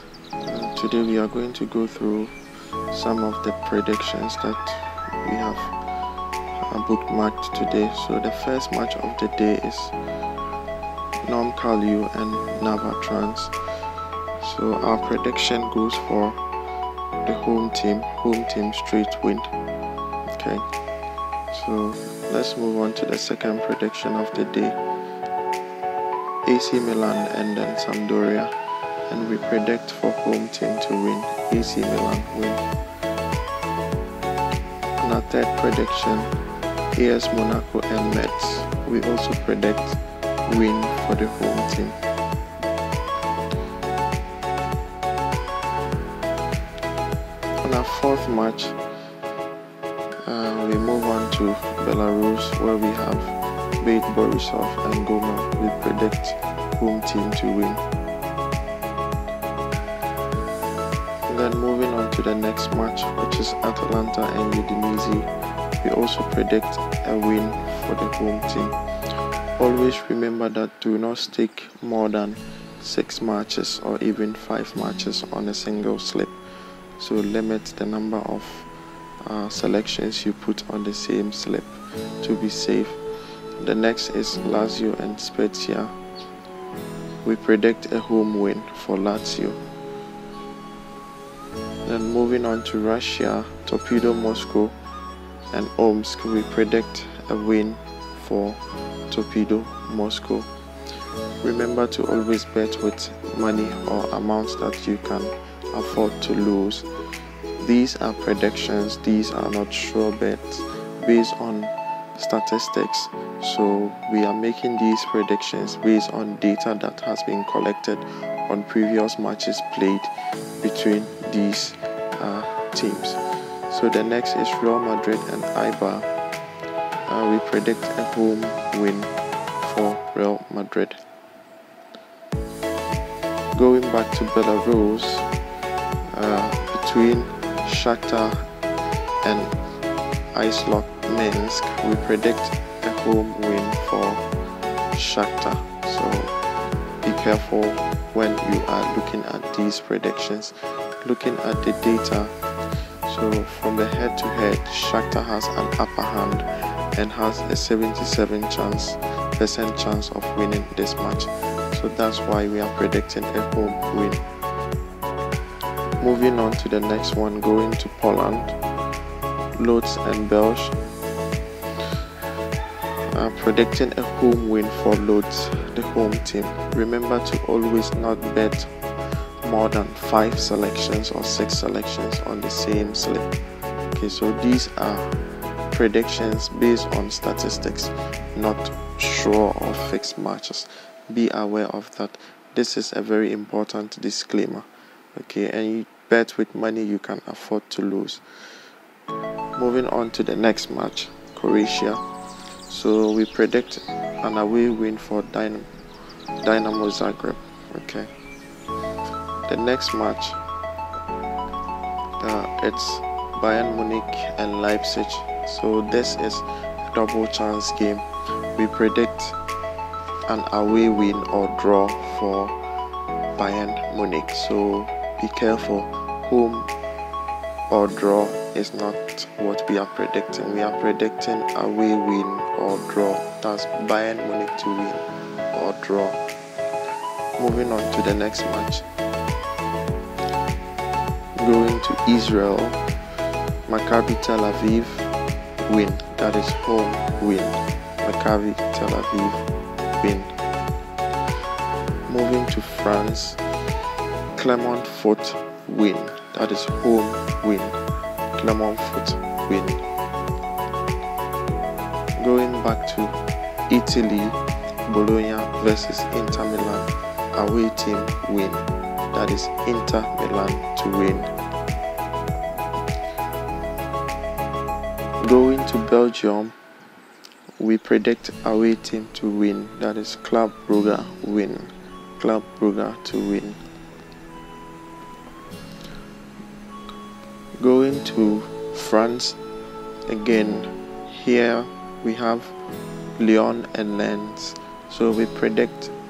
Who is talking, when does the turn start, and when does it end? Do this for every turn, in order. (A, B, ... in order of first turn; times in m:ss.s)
0:00.4-0:02.3 A
0:02.9-0:05.8 A
0:06.6-0:09.9 A
0:11.2-0:13.5 A
0:14.4-0:16.4 A
0:17.2-0:19.5 A
0:20.3-0:20.7 A
0:21.5-0:24.8 A
0:26.4-0:28.5 A
0:29.1-0:32.6 A
0:35.0-0:36.3 A
0:36.9-0:42.0 A
0:47.6-0:48.8 A
0:50.2-0:57.8 A
1:01.3-1:08.8 A
1:09.6-1:16.4 A
1:17.0-1:18.7 A
1:19.2-1:23.0 A
1:23.6-1:25.9 A
1:27.2-1:29.6 A
1:31.8-1:34.7 A
1:35.5-1:40.5 A
1:41.4-1:46.9 A
1:47.6-2:06.1 A
2:07.1-2:11.0 A
2:13.5-2:15.3 A
2:16.1-2:18.4 A
2:19.2-2:19.6 A
2:20.3-2:24.2 A
2:24.9-2:26.3 A
2:27.0-2:44.2 A
2:46.0-2:48.6 A
2:49.6-2:50.8 A
2:53.1-3:03.3 A
3:03.9-3:05.2 A
3:05.7-3:18.6 A
3:19.5-3:22.0 A
3:22.7-3:25.7 A
3:26.4-3:28.1 A
3:29.4-3:30.4 A
3:32.2-3:39.4 A
3:40.3-3:42.6 A
3:43.4-3:46.7 A
3:47.7-3:56.2 A
3:57.4-3:58.8 A
4:01.4-4:02.8 A
4:03.7-4:05.1 A
4:05.6-4:10.3 A
4:12.1-4:13.4 A
4:14.3-4:17.8 A
4:18.3-4:19.8 A
4:22.2-4:23.2 A
4:23.7-4:31.3 A
4:35.2-4:36.6 A
4:37.6-4:43.6 A
4:47.6-4:49.4 A
4:50.1-4:52.6 A
4:53.2-4:55.9 A